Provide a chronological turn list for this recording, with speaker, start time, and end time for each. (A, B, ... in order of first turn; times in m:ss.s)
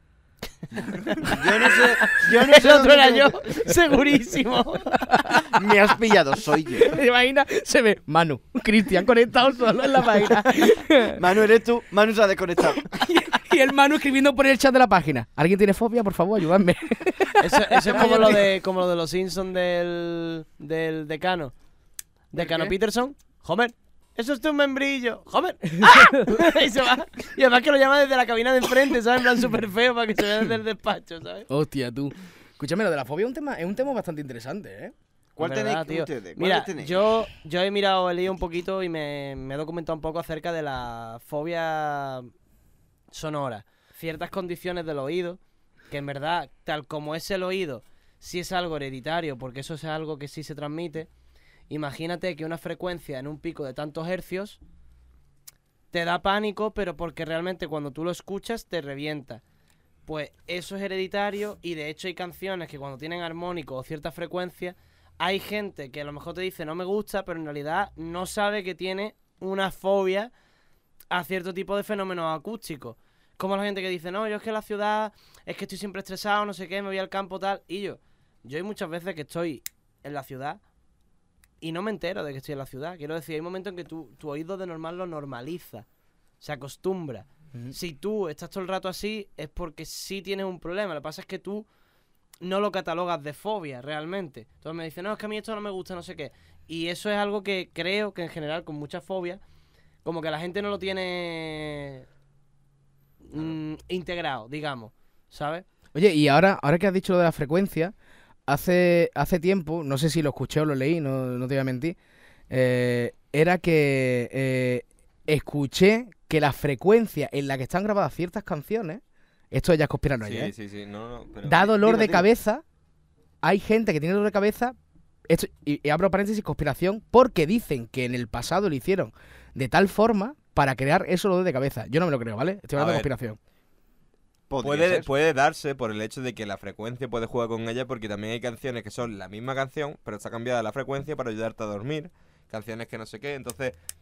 0:00.9-0:05.0 A
0:01.2-0:03.6 B
0:05.1-0:05.6 C
0:05.4-0:07.0 B
0:06.8-0:11.2 C
0:11.2-0:12.9 B
0:12.8-0:18.4 C
0:17.4-0:21.5 A
0:22.3-0:31.5 A
0:22.4-0:22.7 C
0:25.8-0:26.4 C
0:31.5-0:34.9 C
0:35.4-0:37.0 B
0:35.4-0:42.3 A
0:43.1-0:45.4 A
0:45.9-0:51.1 A
0:51.7-0:54.6 A
0:55.9-0:59.4 A
1:00.0-1:10.3 A
1:11.1-1:20.6 A
1:21.6-1:25.8 A
1:26.4-1:31.7 A
1:32.4-1:39.4 A
1:40.0-1:42.0 A
1:43.2-1:45.6 A
1:45.9-1:47.9 C
1:48.5-1:52.0 C
1:52.5-2:00.5 C
2:00.2-2:01.7 D
2:01.4-2:02.6 C
2:01.6-2:02.3 B
2:03.4-2:04.7 C
2:05.3-2:13.4 C
2:12.8-2:13.1 D
2:14.5-2:15.1 B
2:14.6-2:23.7 D